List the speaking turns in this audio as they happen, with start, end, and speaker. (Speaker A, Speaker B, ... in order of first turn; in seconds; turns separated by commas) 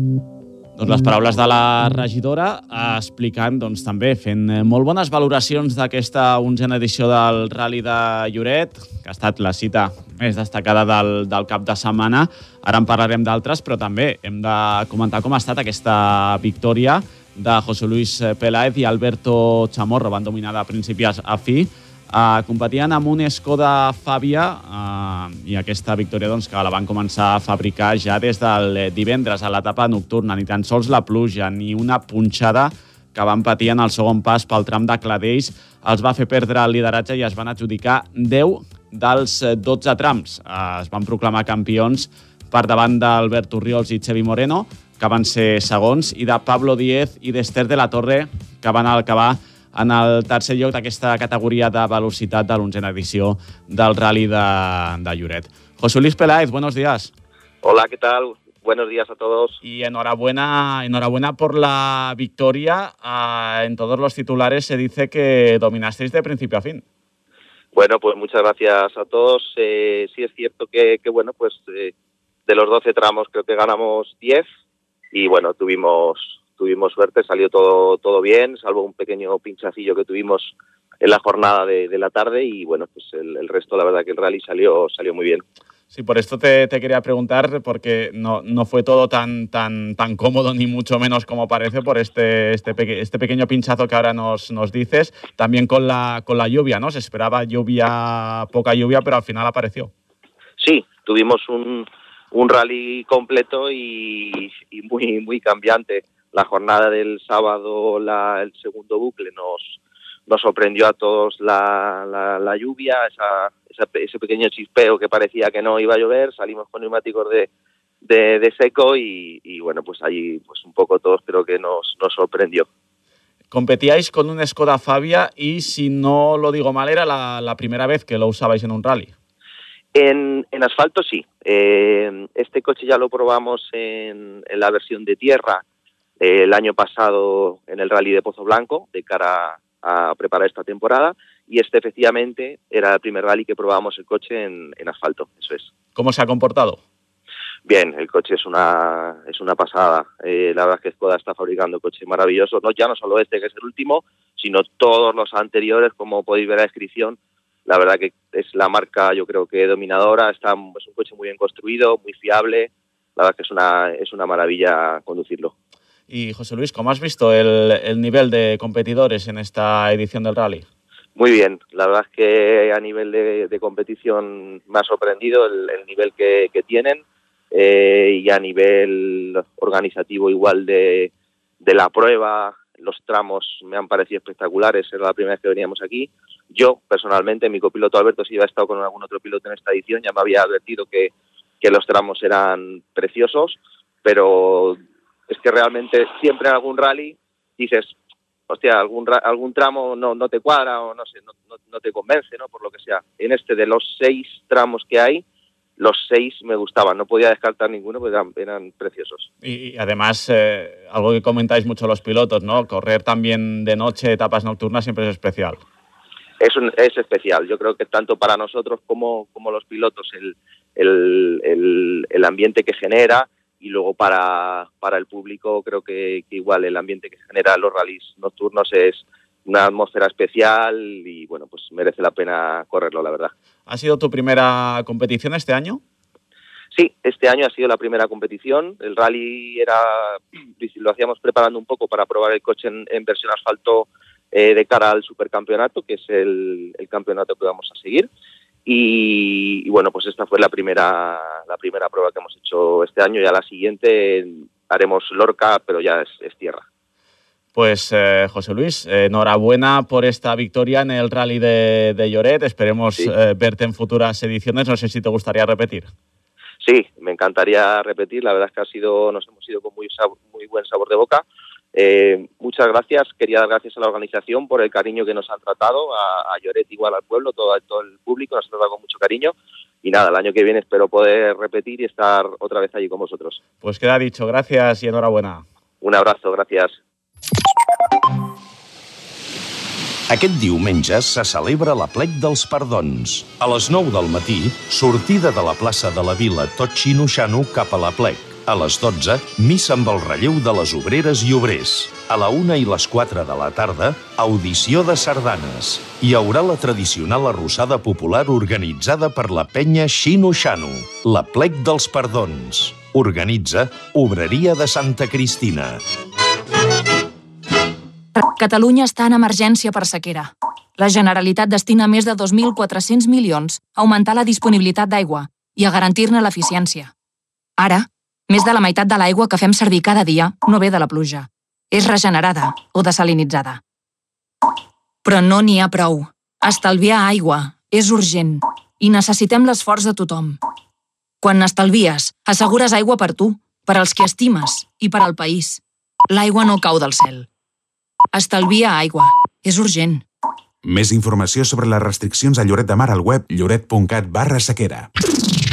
Speaker A: 0.8-57.1, Speaker B: 57.6-59.6, Speaker A: 59.6-66.8, Speaker B: 67.7-71.9, Speaker B: 72.5-74.4, Speaker B: 75.1-85.4, Speaker A: 85.9-99.9, Speaker B: 100.6-109.7, Speaker B: 110.3-117.5, Speaker B: 118.0-122.7, Speaker A: 123.5-129.1, Speaker B: 129.9-135.6, Speaker B: 136.2-145.7, Speaker A: 145.9-146.8, Speaker B: 147.7-165.5, Speaker A: 166.1-170.6, Speaker B: 171.2-181.1, Speaker B: 181.6-194.8, Speaker B: 195.3-197.9, Speaker B: 198.5-205.2, Speaker B: 205.8-209.3, Speaker A: 209.4-215.6, Speaker B: 216.4-233.3, Speaker A: 233.7-235.8, Speaker B: 236.7-248.1, Speaker B: 248.7-256.6, Speaker A: 257.5-265.9, Speaker B: 266.6-283.4, Speaker A: 283.6-285.4, Speaker B: 285.8-286.7, Speaker C: 290.1-315.8, Speaker D: 318.1-326.9, Speaker D: 327.6-333.6, Speaker D: 335.0-340.4, Speaker D: 341.2-347.3, Speaker D: 348.1-350.0, Speaker E: 350.6-354.9